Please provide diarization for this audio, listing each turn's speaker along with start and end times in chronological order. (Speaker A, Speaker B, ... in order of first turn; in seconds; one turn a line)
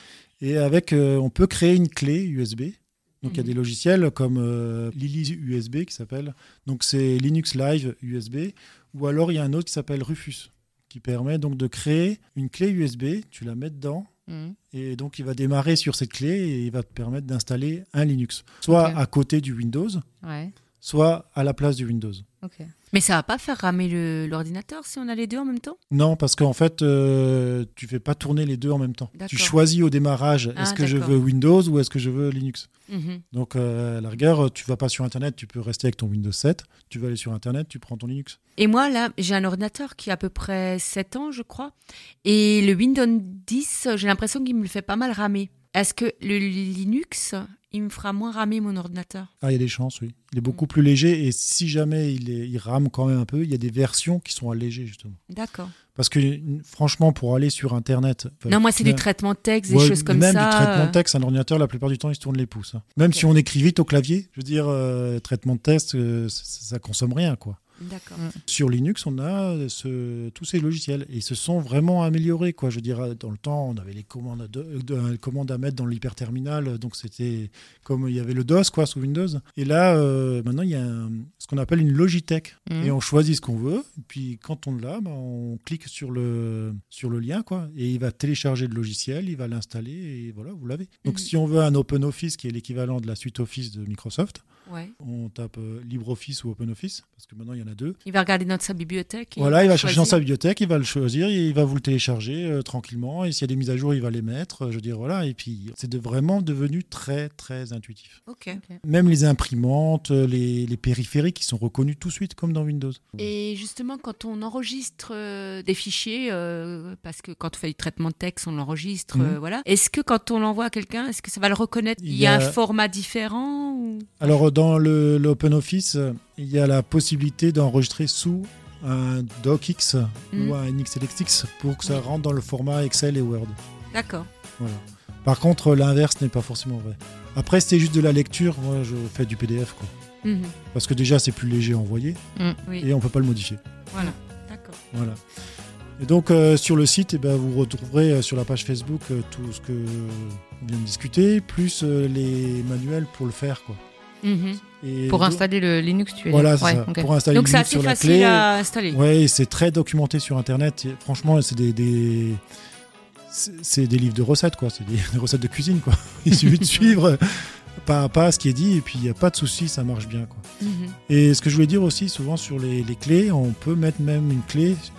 Speaker A: 0.4-14.1
Speaker B: 3.2-3.5
Speaker C: 14.3-14.6
Speaker A: 14.7-20.0
Speaker C: 18.7-19.0
Speaker C: 20.2-20.5
Speaker A: 20.8-22.2
Speaker C: 22.4-22.7
Speaker B: 22.9-25.8
Speaker A: 25.9-32.7
Speaker B: 29.1-29.6
Speaker B: 30.6-31.1
Speaker B: 32.9-33.2
Speaker A: 33.3-38.4
Speaker B: 38.6-49.3
Speaker A: 49.4-55.2
Speaker B: 55.3-55.7
Speaker A: 55.9-59.0
Speaker B: 58.5-61.0
Speaker A: 59.7-67.6
Speaker B: 67.8-68.2
Speaker A: 68.4-94.4
Speaker C: 82.7-82.9
Speaker B: 94.7-94.9
Speaker A: 95.0-98.0
Speaker B: 98.1-100.2
Speaker A: 99.4-108.2
Speaker B: 108.3-108.6
Speaker C: 108.5-108.8
Speaker A: 108.8-113.3
Speaker B: 113.2-124.3
Speaker A: 119.1-119.4
Speaker A: 122.0-122.6
Speaker A: 124.2-133.6
Speaker B: 133.9-134.3
Speaker A: 134.6-139.9
Speaker B: 140.2-140.5
Speaker A: 140.7-142.2
Speaker A: 142.8-144.1
Speaker B: 143.9-144.8
Speaker A: 144.9-145.2
Speaker A: 146.0-153.8
Speaker B: 154.2-154.6
Speaker A: 154.8-155.4
Speaker C: 155.1-157.1
Speaker A: 156.3-162.4
Speaker B: 157.3-159.0
Speaker A: 163.3-170.4
Speaker B: 166.7-166.9
Speaker B: 170.6-170.9
Speaker A: 171.1-174.8